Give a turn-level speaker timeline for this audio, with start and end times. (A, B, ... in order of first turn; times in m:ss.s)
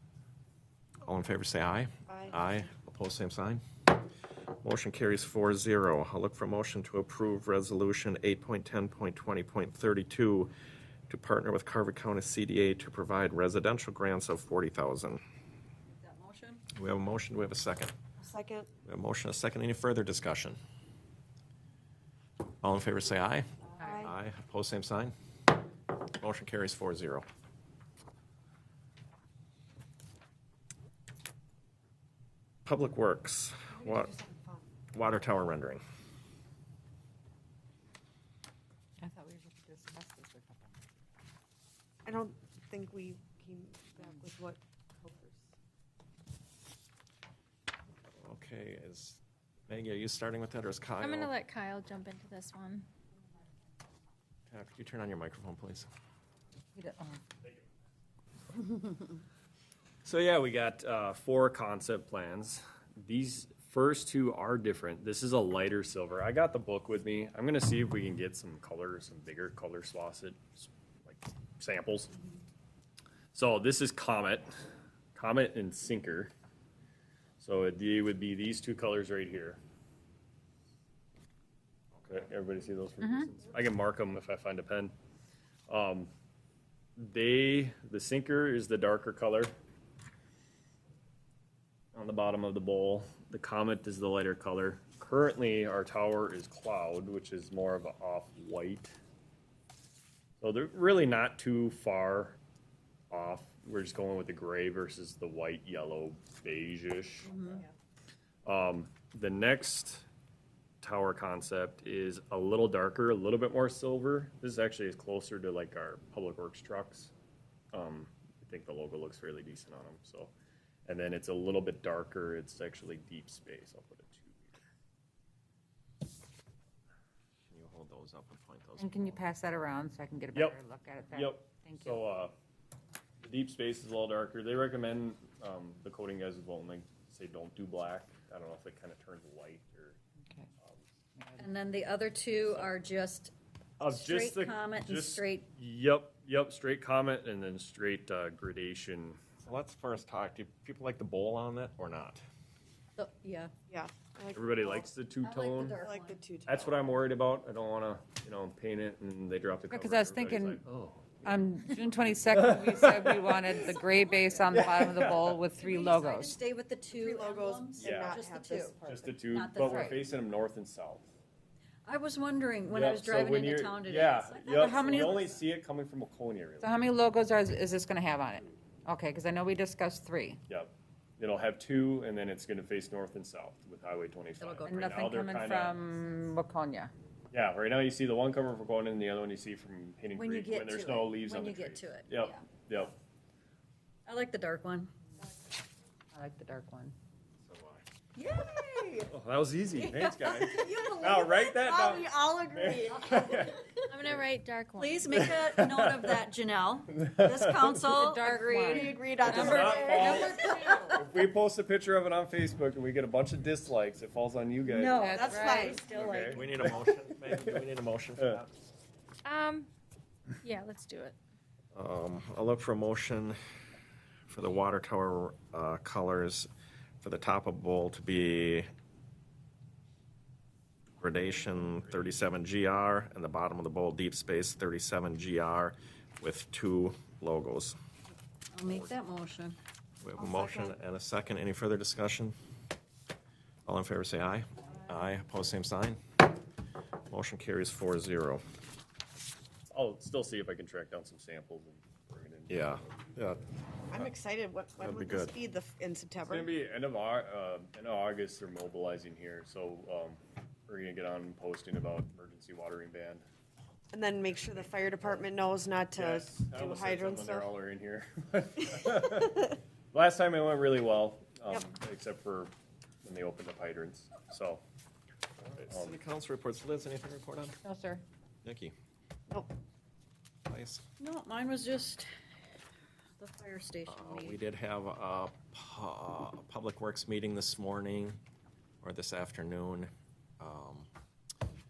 0:01.0-0:03.6 A
0:02.1-0:02.7 B
0:04.6-0:10.5 A
0:11.1-0:15.2 A
0:15.9-0:16.6 C
0:16.7-0:17.9 A
0:18.2-0:18.7 B
0:18.8-0:20.6 A
0:22.6-0:23.5 A
0:23.8-0:24.1 B
0:24.0-0:25.1 A
0:26.1-0:27.2 A
0:32.6-0:34.2 A
0:33.8-0:34.6 B
0:34.9-0:35.8 A
0:39.0-0:40.8 D
0:42.0-0:45.5 B
0:48.2-0:51.3 A
0:51.0-0:52.9 E
0:54.5-0:55.9 A
0:56.8-0:57.2 D
1:00.0-1:12.1 F
1:13.3-1:14.5 F
1:15.2-1:16.3 F
1:17.4-1:19.6 F
1:22.1-1:24.9 F
1:23.0-1:23.3 D
1:25.7-1:26.1 F
1:27.0-1:29.5 F
1:31.9-1:39.0 F
1:40.4-1:42.4 F
1:43.1-1:47.3 F
1:47.2-1:47.6 C
1:48.4-1:50.0 F
1:50.8-1:57.1 F
1:57.7-2:00.3 F
2:00.9-2:04.6 F
2:07.5-2:09.2 A
2:08.8-2:12.0 D
2:11.1-2:12.3 F
2:13.2-2:20.0 F
2:21.2-2:21.5 D
2:21.4-2:25.5 C
2:23.8-2:29.2 F
2:29.4-2:32.2 A
2:33.0-2:33.5 C
2:33.7-2:34.9 B
2:34.3-2:35.8 F
2:35.2-2:36.7 C
2:35.8-2:36.6 B
2:36.5-2:41.4 F
2:39.7-2:40.6 D
2:41.2-2:46.4 D
2:42.3-2:43.6 F
2:43.7-2:44.7 C
2:44.5-2:45.4 F
2:45.6-2:48.8 C
2:46.9-2:49.2 B
2:47.8-2:48.2 F
2:48.8-2:51.1 F
2:49.3-2:50.1 C
2:51.8-2:55.4 C
2:52.7-2:56.8 F
2:54.6-2:55.2 D
2:56.6-3:00.4 D
3:00.5-3:05.8 F
3:04.4-3:05.3 C
3:04.7-3:06.9 D
3:07.3-3:13.0 F
3:10.2-3:12.4 C
3:14.1-3:14.9 C
3:16.1-3:17.0 D
3:17.4-3:17.8 A
3:18.2-3:19.1 C
3:19.1-3:24.2 F
3:19.8-3:22.1 C
3:21.2-3:23.3 B
3:23.1-3:23.7 C
3:23.9-3:25.0 E
3:24.8-3:29.8 C
3:25.1-3:26.2 F
3:27.0-3:27.8 F
3:28.0-3:31.0 D
3:28.7-3:30.8 B
3:29.2-3:30.4 F
3:30.9-3:37.6 F
3:34.7-3:36.4 C
3:34.9-3:35.8 D
3:35.2-3:36.3 B
3:36.3-3:38.5 A
3:39.3-3:39.7 E
3:40.4-3:41.2 E
3:41.8-3:43.4 A
3:44.3-3:46.5 A
3:47.0-3:48.7 A
3:51.0-3:57.8 A
3:51.1-3:52.1 F
3:58.5-3:59.6 C
4:00.0-4:02.4 A
4:00.2-4:00.8 B
4:03.7-4:06.0 A
4:07.1-4:08.4 A
4:09.7-4:13.0 F
4:12.5-4:13.4 A
4:13.9-4:16.5 B
4:14.8-4:15.3 A
4:16.2-4:23.2 F
4:23.9-4:27.5 B
4:24.2-4:25.3 F
4:26.0-4:32.5 F
4:33.0-4:34.6 F
4:35.5-4:37.6 A
4:35.6-4:36.0 F
4:37.6-4:38.0 D
4:38.4-4:38.7 A
4:40.5-4:40.8 A
4:41.0-4:42.1 C
4:43.2-4:44.4 C
4:43.9-4:48.2 A
4:48.8-4:50.9 A